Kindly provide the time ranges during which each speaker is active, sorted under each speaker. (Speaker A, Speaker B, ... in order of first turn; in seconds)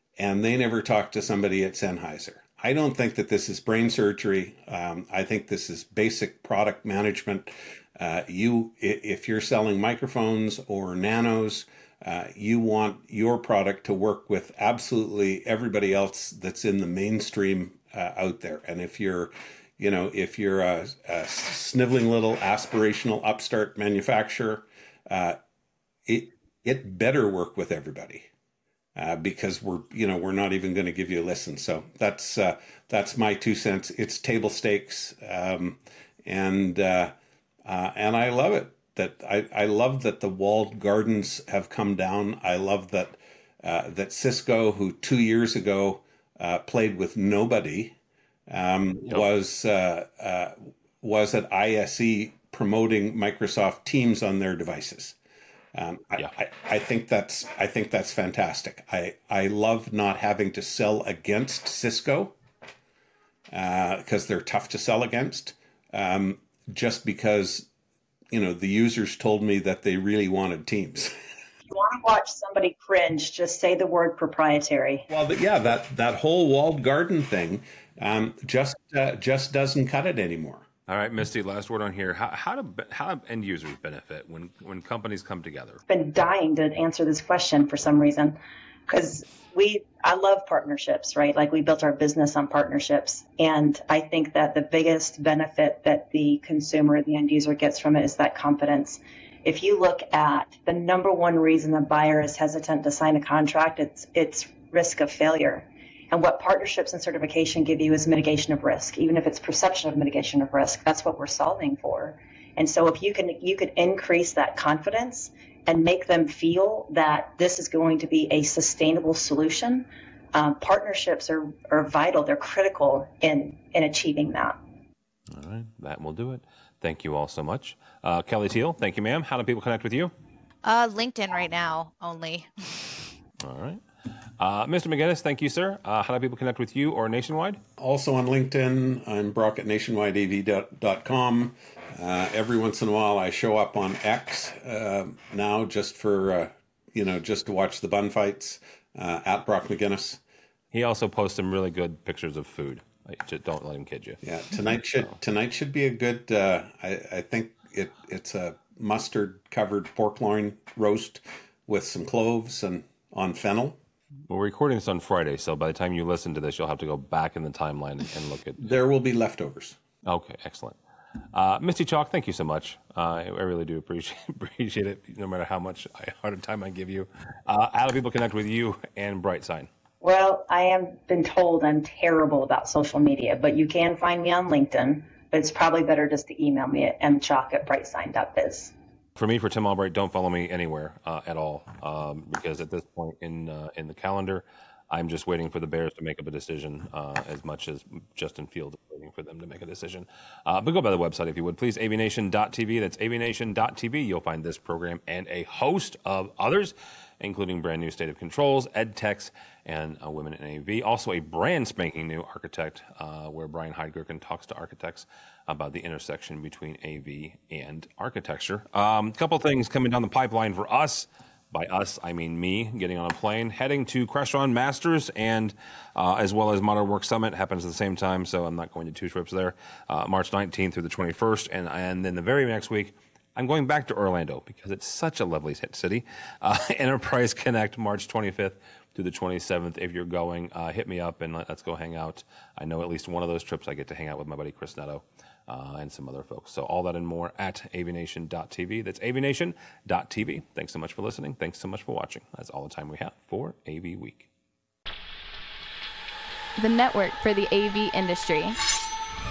Speaker A: 0.2-25.4, 26.1-28.3, 28.9-37.1, 37.6-48.0, 48.5-55.1, 55.7-62.4, 63.5-67.7, 68.3-71.1, 75.1-80.6, 137.8-150.2, 154.2-163.8, 168.6-169.8
Speaker B: 71.7-75.1, 85.9-88.4, 88.9-124.6, 180.0-188.7
Speaker C: 80.9-85.8, 125.3-130.1, 133.4-133.8, 134.4-137.6, 150.7-154.2, 164.3-168.8, 170.0-170.8, 171.3-179.7, 189.2-254.3
Speaker D: 130.6-133.0
Speaker E: 256.6-258.6